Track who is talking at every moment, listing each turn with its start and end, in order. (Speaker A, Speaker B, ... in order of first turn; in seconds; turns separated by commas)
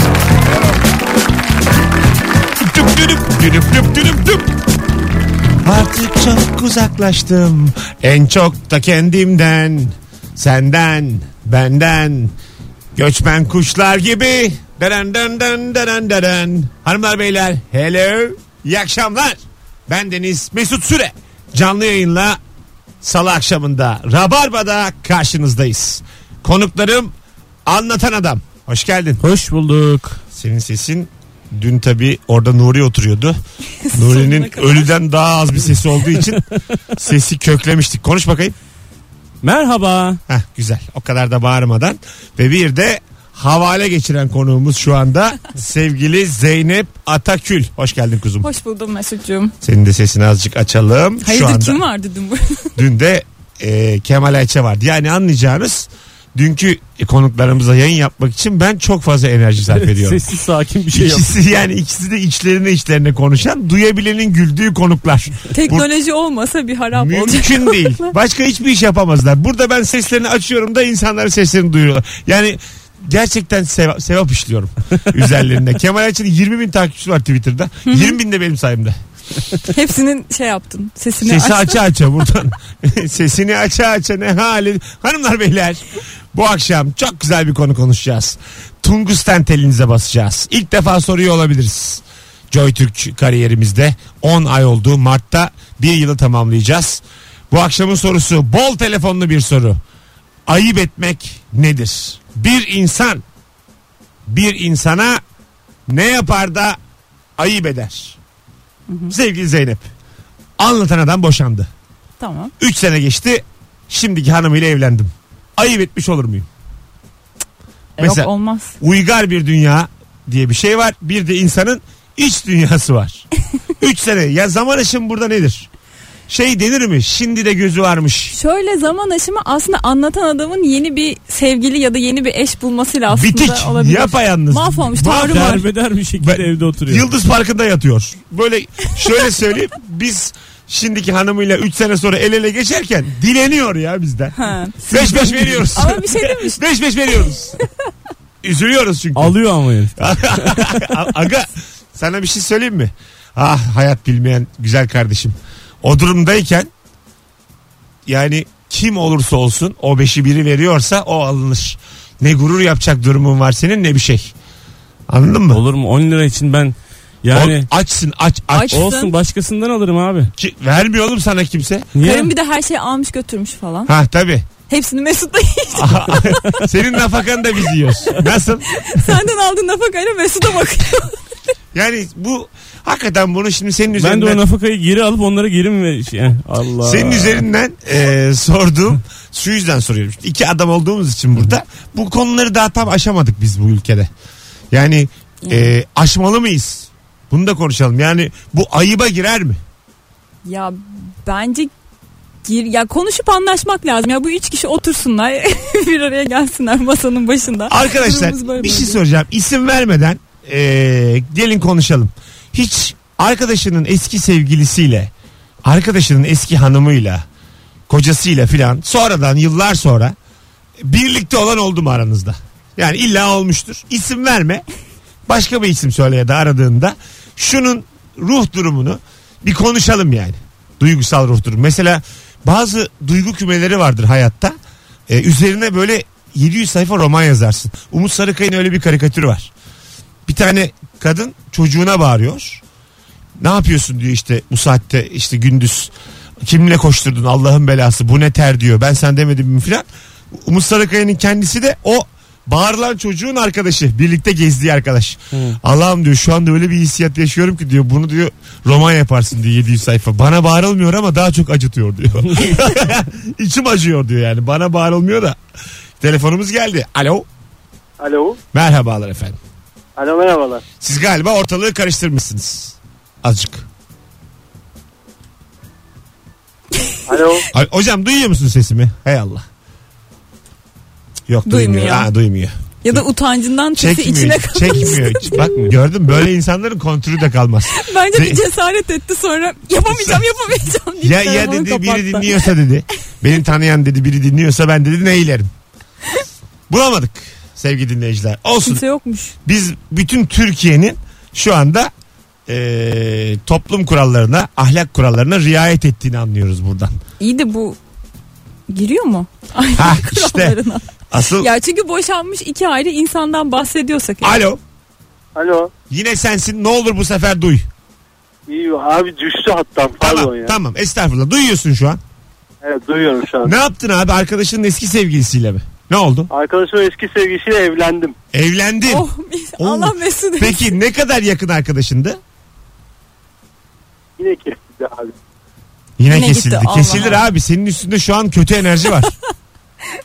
Speaker A: 2.6-4.5, Speaker A: 5.6-12.3, Speaker A: 12.9-22.4, Speaker A: 23.0-27.1, Speaker A: 27.7-29.2, Speaker B: 29.2-30.2, Speaker A: 30.3-33.4, Speaker C: 33.8-34.9, Speaker A: 33.9-36.4, Speaker A: 37.0-38.5, Speaker B: 39.4-40.2, Speaker A: 40.3-48.5, Speaker C: 48.4-49.5, Speaker A: 49.6-51.8, Speaker C: 51.2-52.7, Speaker A: 52.8-60.2, Speaker B: 59.7-61.4, Speaker A: 60.9-65.9, Speaker C: 65.5-68.1, Speaker A: 66.9-79.0, Speaker C: 77.9-78.2, Speaker C: 79.7-81.8, Speaker A: 81.2-99.8, Speaker A: 100.5-103.2, Speaker A: 104.3-105.2, Speaker A: 105.9-106.8, Speaker A: 107.4-108.2, Speaker C: 108.9-109.1, Speaker A: 109.1-109.9, Speaker A: 110.6-111.7, Speaker C: 112.2-112.5, Speaker A: 112.6-116.5, Speaker C: 118.0-118.8, Speaker A: 118.0-123.3, Speaker A: 123.8-125.7, Speaker A: 126.3-128.3, Speaker C: 128.3-135.6, Speaker A: 133.1-135.6, Speaker B: 135.1-137.1, Speaker A: 136.2-147.6, Speaker C: 144.4-146.6, Speaker A: 148.4-149.4, Speaker B: 149.2-151.0, Speaker A: 150.0-156.7, Speaker A: 158.1-164.3, Speaker A: 165.1-165.6, Speaker B: 165.5-167.7, Speaker A: 167.3-168.9, Speaker C: 168.5-169.1, Speaker B: 168.7-170.3, Speaker A: 170.4-171.9, Speaker B: 171.9-172.3, Speaker C: 172.0-173.9, Speaker A: 173.9-174.5, Speaker C: 174.7-176.7, Speaker A: 175.7-179.2, Speaker C: 178.8-181.2, Speaker A: 181.7-184.4, Speaker B: 184.0-187.4, Speaker A: 186.8-194.1, Speaker A: 194.7-199.6, Speaker C: 195.4-195.7, Speaker C: 200.4-201.7, Speaker C: 202.4-209.0, Speaker A: 207.7-215.1, Speaker A: 215.6-217.2, Speaker A: 217.9-220.2, Speaker A: 220.8-224.7, Speaker A: 225.3-234.6, Speaker A: 235.1-239.5, Speaker A: 240.3-242.6, Speaker A: 243.4-245.9, Speaker A: 246.4-265.4, Speaker A: 266.0-267.3, Speaker D: 268.0-268.4, Speaker A: 268.5-269.4, Speaker D: 270.0-270.6, Speaker A: 270.8-273.7, Speaker D: 277.1-277.5, Speaker A: 277.5-279.4, Speaker A: 281.3-283.0, Speaker C: 281.5-282.1, Speaker C: 282.8-285.7, Speaker A: 283.8-288.4, Speaker C: 287.7-292.5, Speaker A: 289.9-290.2, Speaker A: 291.0-295.5, Speaker A: 296.7-298.8, Speaker C: 298.7-299.3, Speaker A: 299.4-301.9, Speaker A: 302.5-306.9, Speaker C: 307.2-307.8, Speaker C: 308.7-310.9, Speaker A: 309.8-310.6, Speaker A: 311.1-311.5, Speaker C: 311.4-314.4, Speaker A: 314.2-314.6, Speaker D: 315.4-315.7, Speaker A: 315.9-317.7, Speaker D: 318.5-320.6, Speaker A: 320.0-322.0, Speaker D: 322.6-323.6, Speaker A: 323.4-326.3, Speaker D: 326.3-328.2, Speaker A: 328.3-329.1, Speaker C: 328.9-330.7, Speaker A: 329.6-332.2, Speaker D: 334.2-335.1, Speaker A: 336.0-339.1, Speaker C: 336.1-337.3